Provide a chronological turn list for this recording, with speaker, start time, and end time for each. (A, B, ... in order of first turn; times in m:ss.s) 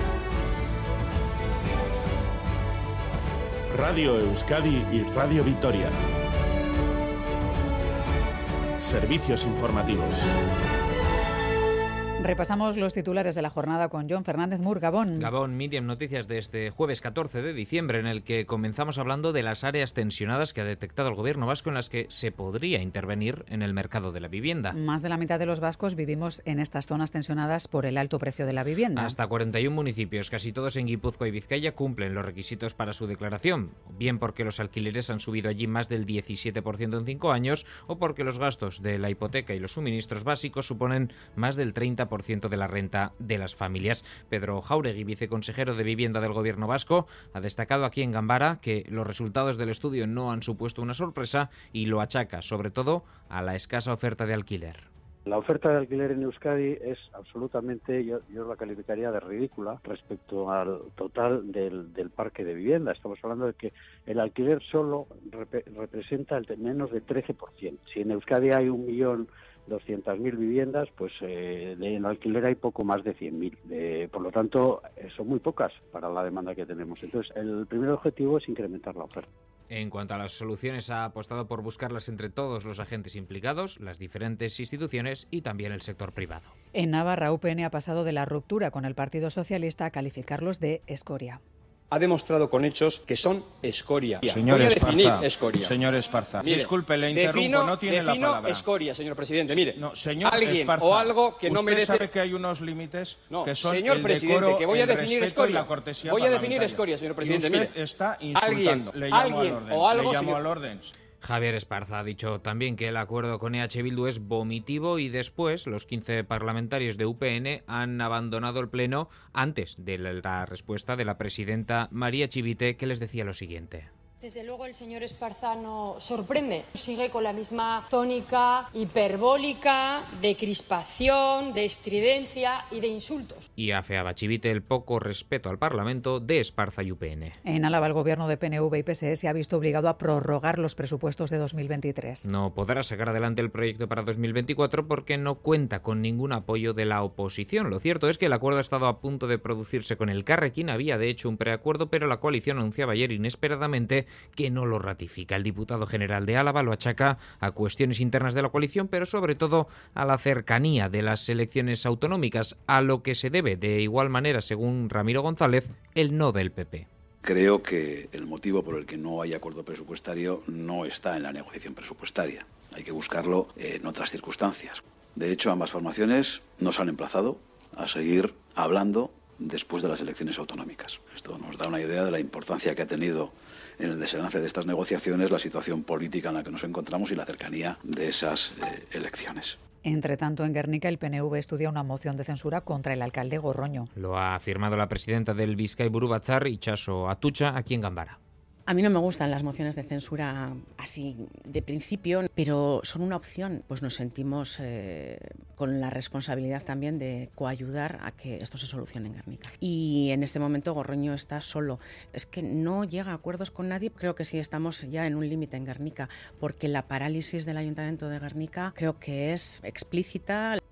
0:03.7-0:06.0 A
0:08.8-0:10.3 A
0:12.2-0:15.3 B
0:15.2-0:24.8 C
0:24.7-0:29.2 B
0:28.9-0:54.8 C
0:55.3-1:19.3 D
1:19.7-1:26.5 C
1:26.7-1:31.4 B
1:31.9-1:35.8 E
1:34.2-1:38.6 F
1:36.4-1:42.1 E
1:39.6-1:50.9 F
1:43.3-1:47.7 E
1:48.3-1:50.4 E
1:51.2-2:03.9 C
2:04.2-2:13.5 G
2:13.6-2:17.4 C
2:17.4-2:22.2 B
2:22.2-2:46.9 C
2:47.2-3:09.6 H
3:09.8-3:13.9 B
3:13.9-3:18.2 C
3:18.7-3:40.6 I